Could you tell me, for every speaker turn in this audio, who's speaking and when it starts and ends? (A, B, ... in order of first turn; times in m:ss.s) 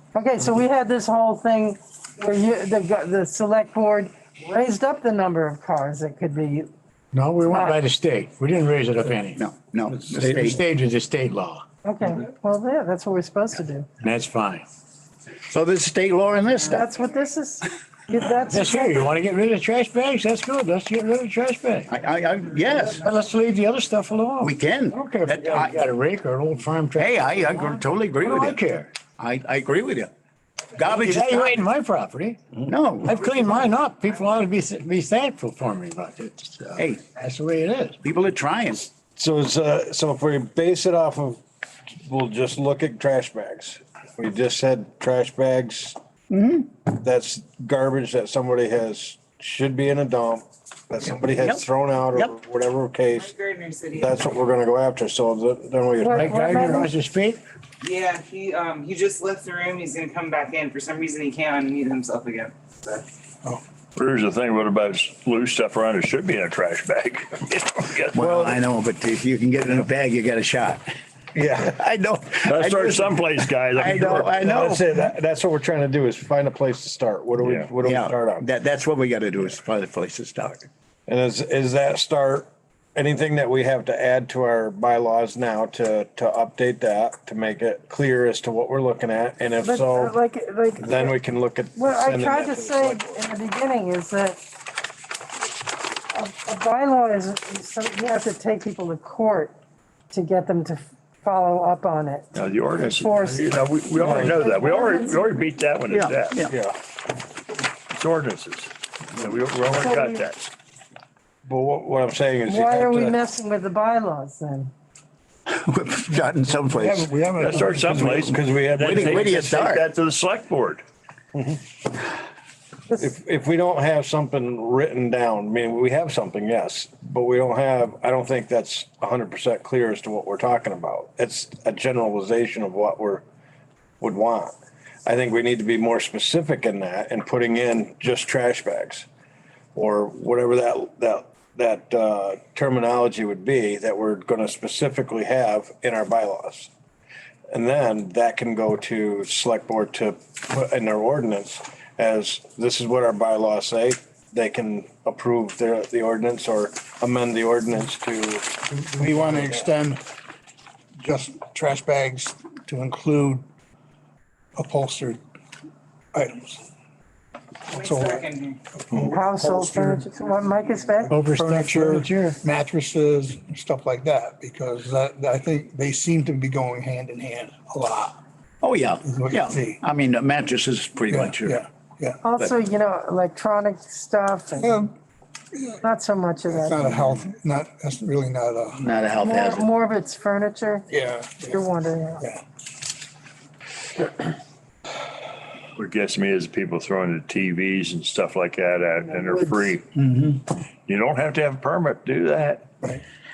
0:00.1-0:06.7 A
0:07.1-0:09.4 B
0:07.5-0:07.8 A
0:09.4-0:10.6 C
0:10.0-0:11.6 B
0:11.8-0:13.9 A
0:14.0-0:14.6 B
0:15.5-0:16.9 C
0:16.7-0:19.1 A
0:18.5-0:21.9 B
0:21.9-0:23.0 C
0:22.8-0:28.9 B
0:24.4-0:25.8 C
0:27.0-0:28.6 C
0:29.2-0:30.1 C
0:30.8-0:31.6 C
0:30.8-0:38.0 B
0:32.6-0:33.2 C
0:36.8-0:37.0 C
0:38.0-0:38.9 C
0:39.1-0:41.4 D
0:42.0-0:46.0 D
0:46.3-0:46.8 C
0:46.9-0:53.3 D
0:51.3-0:52.3 C
0:53.1-0:54.2 E
0:54.0-0:56.9 D
0:56.0-0:56.9 A
0:56.1-0:57.4 B
0:57.8-1:03.1 E
1:04.0-1:08.4 F
1:08.1-1:10.9 C
1:08.2-1:08.6 D
1:11.3-1:11.8 D
1:11.6-1:15.0 C
1:12.4-1:14.3 F
1:14.1-1:18.4 D
1:17.4-1:17.7 F
1:17.8-1:20.7 C
1:21.1-1:30.1 D
1:29.6-1:31.1 A
1:30.8-1:33.2 D
1:31.7-1:34.4 A
1:36.1-1:39.5 A
1:40.1-1:45.4 A
1:42.3-1:46.4 F
1:44.0-1:44.4 D
1:45.9-1:46.5 C
1:46.5-1:46.7 D
1:47.9-1:50.4 F
1:49.8-1:50.3 A
1:51.4-1:53.2 D
1:52.5-1:54.7 A
1:55.5-1:57.6 C
1:56.5-1:58.3 G
1:57.4-2:00.8 F
1:58.0-1:59.4 D
1:58.8-1:59.8 C
2:01.3-2:01.6 D
2:03.0-2:13.2 D
2:14.0-2:14.5 D
2:15.0-2:19.0 D
2:19.7-2:26.7 D
2:27.5-2:39.4 D
2:38.8-2:40.0 G
2:41.0-2:43.4 G
2:44.6-2:45.2 G
2:46.1-2:46.6 G
2:47.7-2:48.6 E
2:47.7-2:50.1 G
2:49.0-2:51.2 A
2:51.1-2:52.4 B
2:51.3-2:58.2 G
2:58.6-3:01.6 C
2:59.0-2:59.8 G
3:01.1-3:02.2 G
3:02.2-3:04.8 A
3:04.6-3:04.9 G
3:05.5-3:05.8 G
3:05.8-3:06.9 A
3:06.5-3:08.8 G
3:08.8-3:09.7 C
3:09.2-3:10.9 A
3:10.9-3:11.6 G
3:11.5-3:12.2 A
3:15.8-3:19.9 F
3:20.0-3:20.4 C
3:20.9-3:23.0 F